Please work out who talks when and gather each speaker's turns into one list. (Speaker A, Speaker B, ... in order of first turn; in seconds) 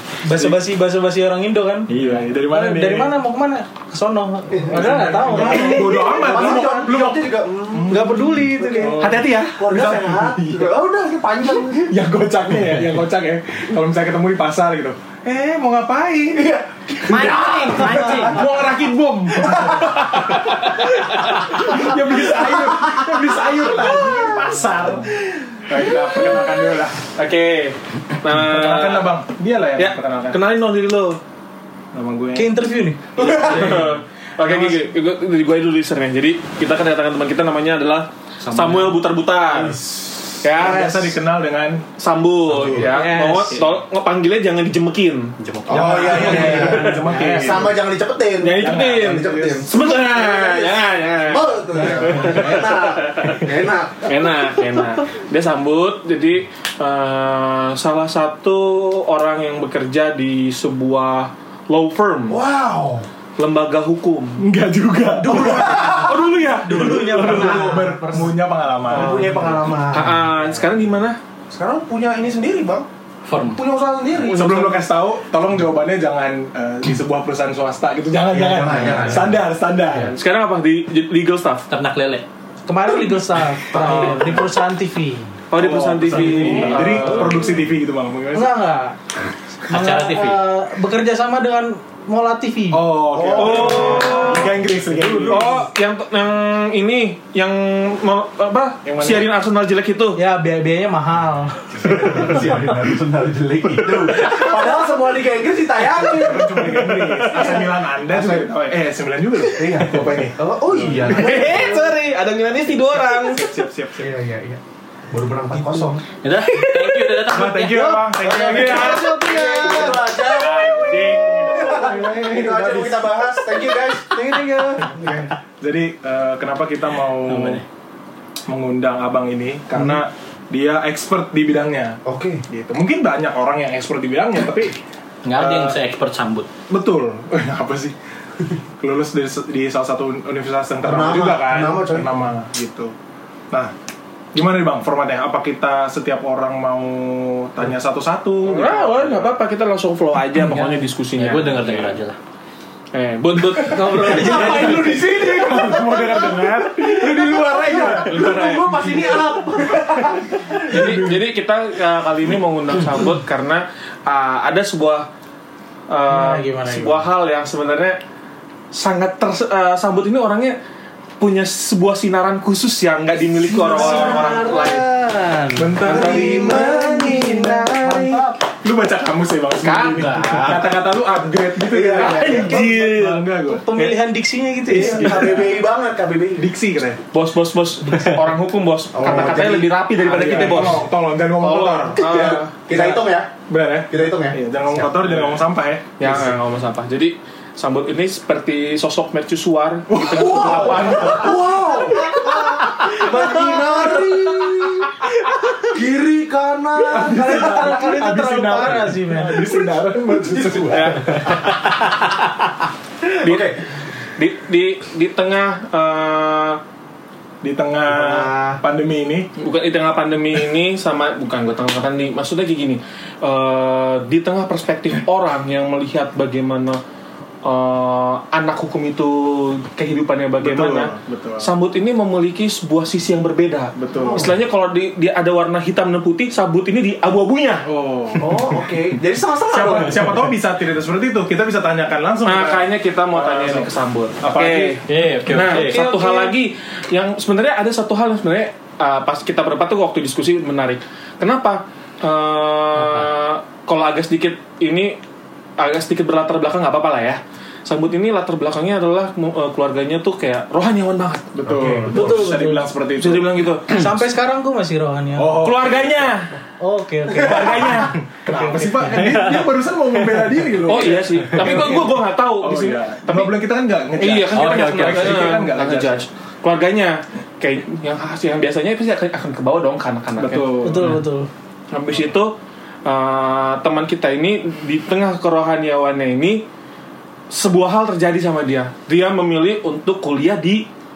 Speaker A: 0.2-6.6, 7.9-9.1, 32.3-33.1, 42.8-43.6, 65.2-68.3, 68.9-69.5, 82.7-85.3, 88.3-89.0, 89.7-92.9, 93.8-95.6, 100.2-102.6, 115.6-116.0, 118.7-120.0, 153.6-155.0, 166.1-167.1, 173.8-174.3, 176.2-178.3, 182.2-185.3, 187.9-188.2, 203.3-203.6, 207.0-209.4, 261.8-262.7, 263.7-265.5, 266.6-269.4, 280.6-281.3
Speaker B: 0.3-0.6, 1.9-3.2, 4.7-10.8, 11.7-16.5, 17.1-25.1, 25.7-27.0, 28.3-30.4, 31.9-32.5, 33.3-33.9, 40.5-41.9, 42.6-42.9, 45.7-47.8, 48.5-49.7, 64.4-66.0, 66.6-69.4, 74.2-80.2, 85.5-88.5, 92.7-95.7, 98.8-99.3, 106.0-111.8, 112.5-114.1, 117.2-119.1, 120.1-123.2, 125.6-127.6, 128.5-134.8, 135.3-135.8, 136.7-137.9, 138.8-142.9, 144.3-149.3, 154.1-158.3, 160.7-161.2, 175.5-178.0, 178.6-183.7, 184.7-185.6, 186.4-187.0, 190.1-196.3, 199.9-201.8, 206.8-211.3, 217.4-219.3, 230.4-231.5, 233.8-234.3, 237.6-238.6, 239.5-244.8, 261.3-263.3, 265.2-266.1, 268.2-276.0, 280.2-281.0
Speaker C: 4.5-11.9, 16.3-18.5, 19.3-20.2, 21.8-23.1, 33.2-33.8, 42.6-42.9, 45.7-54.3, 62.3-63.0, 65.3-66.2, 67.2-67.8, 68.9-70.4, 71.5-72.9, 73.5-74.8, 78.3-79.4, 83.7-84.0, 93.1-94.5, 101.7-108.5, 109.5-111.8, 114.0-116.0, 118.0-125.3, 129.8-130.0, 132.0-132.4, 140.8-142.2, 153.9-160.8, 173.5-174.9, 175.8-177.9, 181.6-182.6, 184.7-186.5, 188.9-190.8, 191.9-193.3, 193.9-194.9, 200.1-207.8, 210.1-211.4, 213.0-213.6, 217.9-218.6, 234.0-234.3, 238.2-240.2
Speaker D: 9.0-10.2, 20.2-20.9, 27.1-29.1, 29.8-31.2, 33.2-39.8, 40.4-41.1, 42.0-47.0, 48.4-53.4, 54.0-62.4, 63.4-64.4, 65.5-67.6, 69.7-71.2, 80.1-81.7, 83.8-84.3, 85.5-87.5, 93.3-94.5, 95.3-100.2, 110.9-113.6, 118.2-120.0, 148.4-152.0, 152.9-154.9, 158.0-158.9, 160.7-165.1, 165.9-168.0, 168.7-170.6, 171.2-174.9, 175.8-178.0, 179.6-180.7, 181.9-184.0, 187.1-192.9, 196.0-201.4, 202.8-203.6, 210.7-211.5, 213.2-213.5, 214.2-216.6, 219.4-226.8, 227.4-237.7, 242.2-255.0, 255.6-262.1, 263.0-264.0, 265.4-266.3, 267.1-268.0, 270.6-273.4, 273.9-280.9, 281.7-286.4, 287.3-290.6
Speaker E: 17.0-18.7, 38.4-39.0, 45.4-46.6, 73.2-73.6, 81.7-82.2, 86.2-87.1, 89.7-90.4, 116.2-118.0, 127.2-127.6, 135.2-136.5, 150.4-152.2, 173.8-175.2, 244.9-246.3, 252.8-253.1, 274.3-275.2